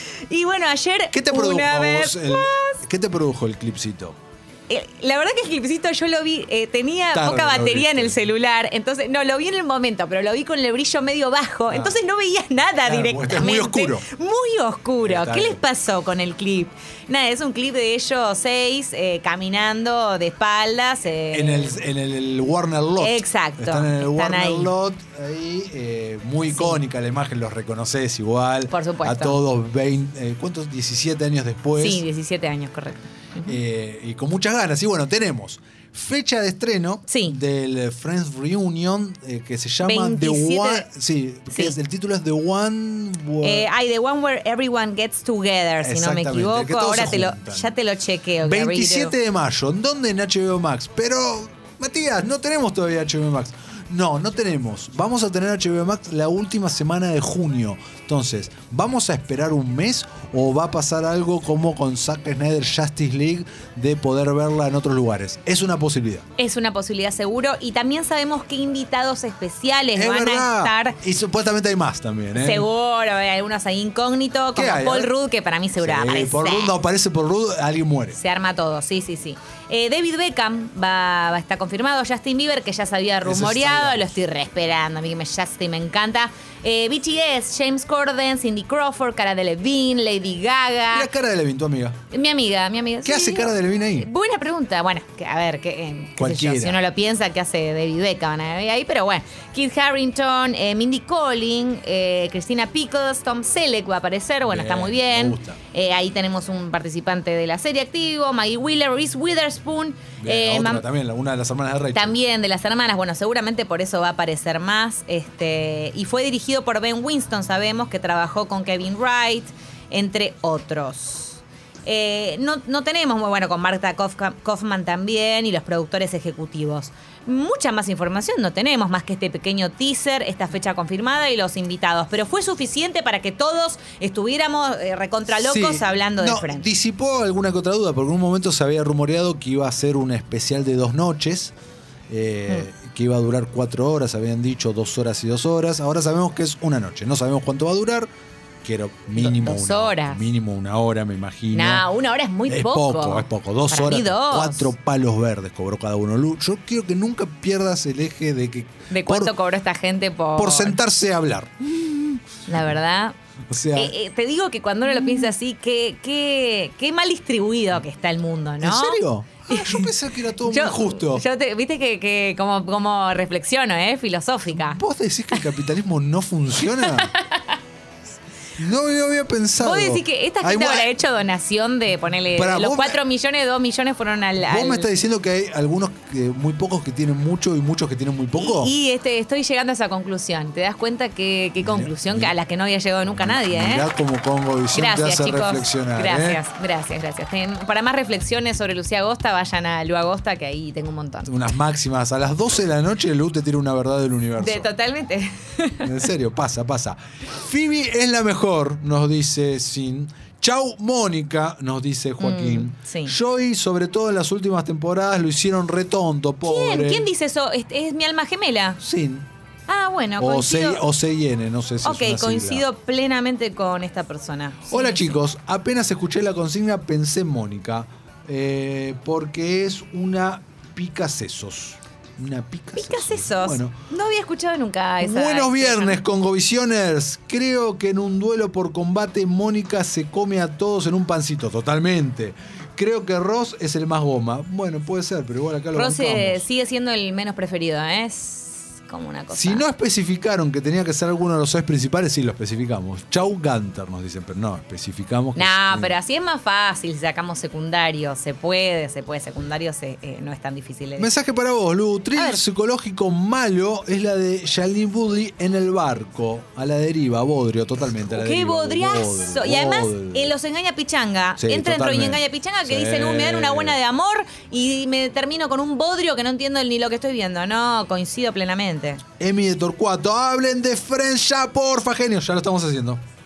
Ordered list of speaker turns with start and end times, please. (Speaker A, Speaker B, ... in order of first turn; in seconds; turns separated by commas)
Speaker A: 0.3-2.8, Speaker B: 1.1-4.2, Speaker A: 4.7-21.8, Speaker B: 7.1-8.3, Speaker B: 11.7-12.0, Speaker B: 12.8-14.1, Speaker B: 15.0-15.6, Speaker B: 21.3-32.0, Speaker A: 23.0-24.7, Speaker A: 26.5-26.8, Speaker A: 28.7-29.4, Speaker A: 31.8-33.6, Speaker B: 33.5-43.7, Speaker A: 37.1-37.4, Speaker A: 39.8-40.9, Speaker A: 41.5-41.8, Speaker A: 43.4-49.1, Speaker B: 45.8-47.7, Speaker B: 48.4-66.2, Speaker A: 66.4-71.0, Speaker B: 69.9-72.7, Speaker A: 72.3-76.7, Speaker B: 74.5-75.1, Speaker B: 75.8-78.2, Speaker A: 78.1-91.1, Speaker B: 83.2-84.1, Speaker B: 90.9-92.0, Speaker A: 92.1-110.8, Speaker B: 93.0-94.1, Speaker B: 96.2-96.8, Speaker B: 104.5-105.6, Speaker B: 110.2-112.2, Speaker A: 111.9-136.7, Speaker B: 135.4-141.5, Speaker B: 142.1-148.1, Speaker B: 148.6-151.9, Speaker A: 149.1-150.3, Speaker A: 151.5-154.7, Speaker B: 152.5-159.3, Speaker A: 158.9-160.8, Speaker B: 160.3-162.2, Speaker A: 162.5-163.1, Speaker B: 163.5-163.9, Speaker A: 163.7-174.8, Speaker B: 168.6-171.2, Speaker B: 174.5-177.1, Speaker A: 176.6-177.5, Speaker B: 178.6-180.9, Speaker A: 179.6-184.9, Speaker B: 182.3-183.0, Speaker B: 184.4-188.7, Speaker A: 188.3-193.9, Speaker B: 191.6-192.3, Speaker B: 193.1-196.4, Speaker A: 194.7-201.4, Speaker B: 201.3-204.7, Speaker A: 204.4-206.1, Speaker B: 205.8-217.1, Speaker A: 212.2-213.2, Speaker A: 216.4-218.8, Speaker B: 218.8-219.3, Speaker A: 219.7-220.8, Speaker B: 220.2-222.6, Speaker A: 221.8-225.1, Speaker B: 224.7-233.8, Speaker A: 232.7-236.0, Speaker B: 235.0-246.4, Speaker A: 245.7-249.6, Speaker B: 249.3-255.9, Speaker A: 255.3-261.1, Speaker B: 261.0-270.3, Speaker A: 262.1-262.4, Speaker A: 268.1-279.0, Speaker B: 271.4-273.8, Speaker B: 279.2-283.0